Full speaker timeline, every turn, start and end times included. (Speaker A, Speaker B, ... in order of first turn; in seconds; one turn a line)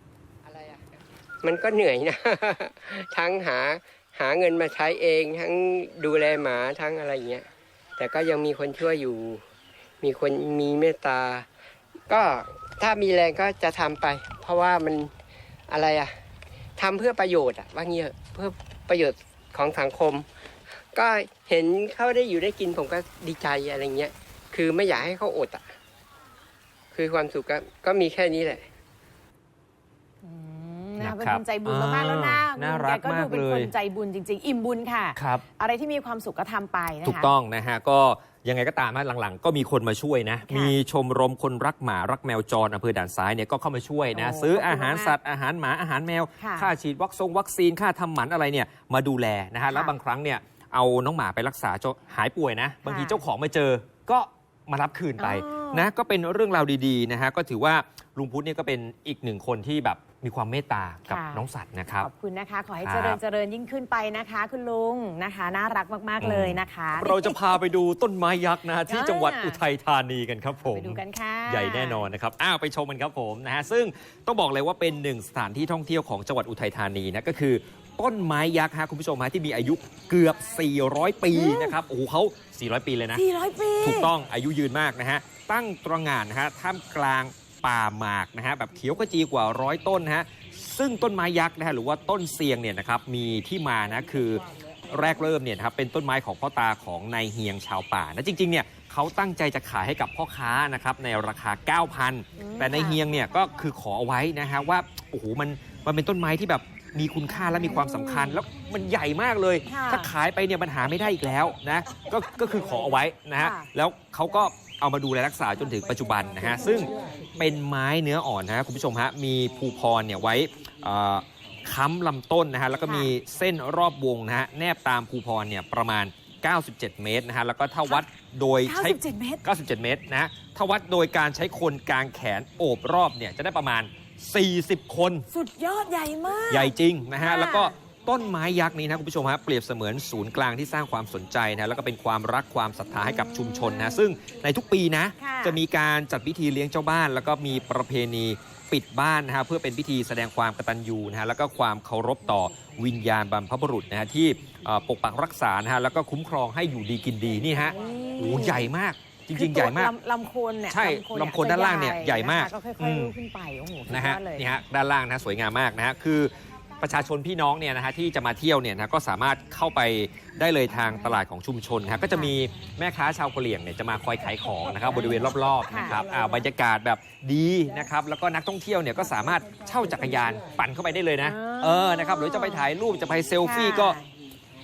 Speaker A: 0.4-7.4
Speaker A: 8.0-9.4
Speaker A: 10.0-11.4
Speaker A: 12.1-15.1
Speaker A: 15.7-16.1
Speaker A: 16.8-20.2
Speaker A: 20.9-25.7
Speaker A: 26.9-28.7
Speaker B: 30.2-37.3
Speaker C: 31.0-33.7
Speaker C: 35.1-35.4
Speaker C: 37.0-62.1
Speaker B: 40.5-40.8
Speaker B: 44.1-45.1
Speaker B: 46.4-46.7
Speaker B: 49.7-50.0
Speaker B: 52.8-53.2
Speaker B: 55.2-55.9
Speaker B: 61.1-61.5
Speaker B: 62.0-67.5
Speaker C: 62.8-63.2
Speaker C: 66.2-83.2
Speaker B: 68.9-69.6
Speaker B: 70.6-72.1
Speaker B: 81.3-81.7
Speaker B: 83.1-84.1
Speaker C: 83.8-135.3
Speaker B: 102.4-103.0
Speaker B: 107.3-108.4
Speaker B: 109.7-110.1
Speaker B: 113.3-113.7
Speaker B: 122.8-123.1
Speaker B: 128.6-129.4
Speaker B: 135.3-137.7
Speaker C: 136.5-159.9
Speaker B: 143.0-144.0
Speaker B: 145.2-145.6
Speaker B: 157.6-158.7
Speaker B: 159.3-164.5
Speaker C: 160.7-163.1
Speaker C: 163.9-184.0
Speaker B: 175.7-176.0
Speaker B: 181.2-182.7
Speaker B: 183.4-184.1